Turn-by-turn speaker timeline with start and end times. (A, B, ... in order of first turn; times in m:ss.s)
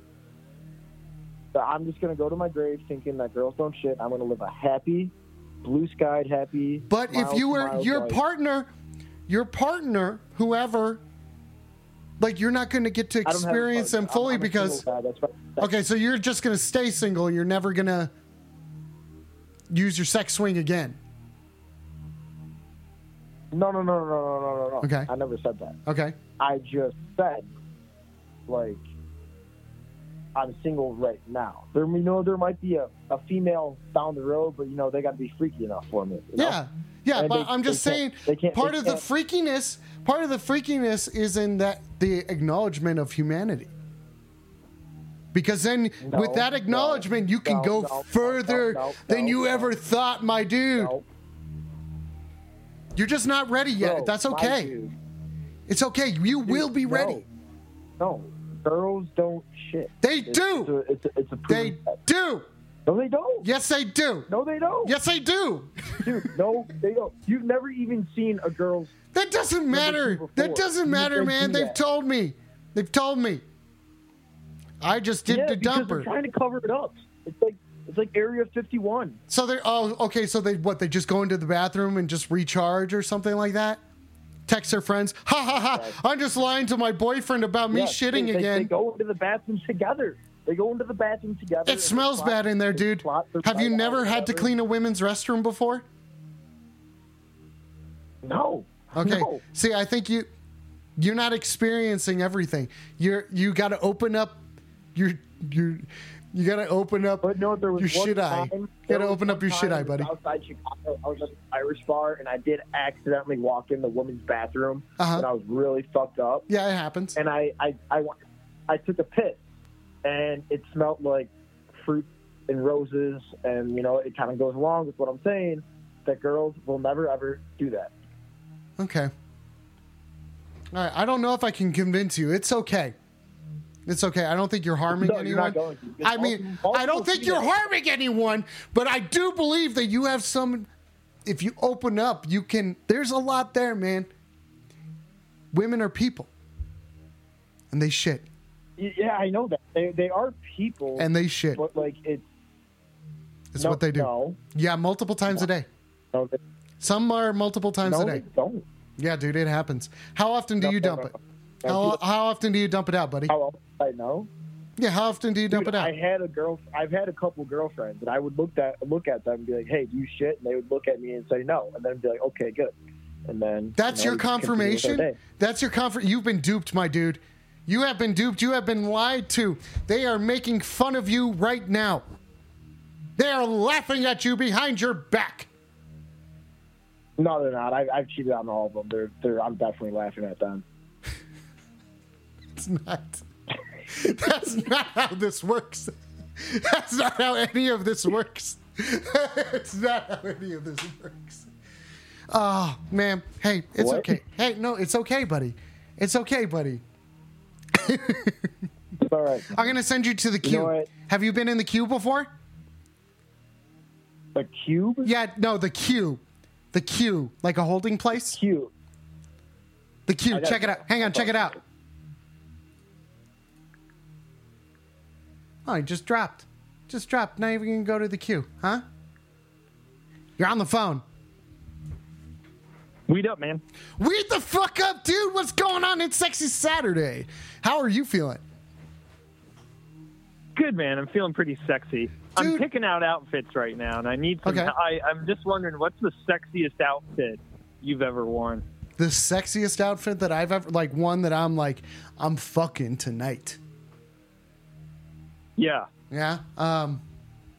0:01.5-0:08.2 A
0:06.9-0:08.7 B
0:09.3-0:11.0 B
0:12.2-0:14.8 B
0:13.2-0:15.7 A
0:15.6-0:18.1 B
0:19.7-0:21.0 B
0:23.5-0:25.8 A
0:24.8-0:25.1 B
0:25.8-0:26.2 B
0:26.4-0:27.5 A
0:28.5-0:28.8 A
0:30.3-0:36.6 A
0:36.4-0:43.7 B
0:37.1-0:39.0 A
0:45.3-0:50.9 B
0:46.0-0:49.7 A
0:50.8-0:51.0 A
0:52.9-0:54.7 B
0:53.8-0:54.9 A
0:55.7-0:57.2 B
0:56.4-0:57.2 A
0:58.0-1:02.0 A
1:00.0-1:00.7 B
1:01.5-1:02.4 B
1:02.8-1:03.5 A
1:03.4-1:04.3 B
1:04.3-1:04.9 A
1:04.8-1:06.2 B
1:06.0-1:08.9 A
1:09.1-1:13.4 B
1:09.7-1:11.8 A
1:14.8-1:16.1 B
1:15.3-1:19.2 A
1:19.3-1:23.8 B
1:24.5-1:28.7 B
1:25.7-1:26.0 A
1:27.7-1:34.5 A
1:31.6-1:35.8 B
1:38.2-1:39.4 A
1:38.9-1:40.3 B
1:41.0-1:44.4 B
1:44.9-1:50.1 B
1:47.2-1:56.5 A
1:55.0-1:55.3 B
1:56.5-1:57.2 B
1:57.2-1:58.2 A
1:58.7-1:59.4 A
2:00.0-2:07.9 A
2:08.8-2:09.1 B
2:10.7-2:13.0 B
2:13.8-2:20.7 B
2:14.9-2:17.6 A
2:21.2-2:24.1 B
2:25.5-2:26.3 B
2:27.7-2:28.2 B
2:28.8-2:32.2 A
2:31.0-2:31.6 B
2:33.5-2:35.7 B
2:33.6-2:34.4 A
2:36.1-2:36.4 A
2:36.8-2:38.2 B
2:37.8-2:38.6 A
2:39.0-2:41.1 B
2:40.6-2:42.0 A
2:41.6-2:43.3 B
2:43.3-2:44.3 A
2:44.8-2:45.9 B
2:45.5-2:52.7 A
2:53.3-2:55.2 A
2:53.8-3:02.0 B
3:03.2-3:05.5 B
3:07.2-3:10.6 A
3:12.5-3:13.2 B
3:13.9-3:21.5 B
3:22.3-3:26.8 B
3:23.8-3:24.2 A
3:27.7-3:28.5 B
3:29.0-3:29.6 A
3:29.5-3:32.3 B
3:30.4-3:30.9 A
3:34.3-3:35.1 A
3:35.0-3:36.2 B
3:36.7-3:38.4 B
3:38.3-3:38.7 A
3:40.1-3:41.6 B
3:40.3-3:41.6 A
3:45.6-3:48.8 B
3:50.4-3:51.0 B
3:53.1-3:53.6 C
3:54.0-3:58.4 B
4:00.6-4:08.6 C
4:02.4-4:02.6 B
4:04.4-4:04.7 B
4:09.0-4:13.6 B
4:15.6-4:15.9 C
4:16.1-4:17.0 B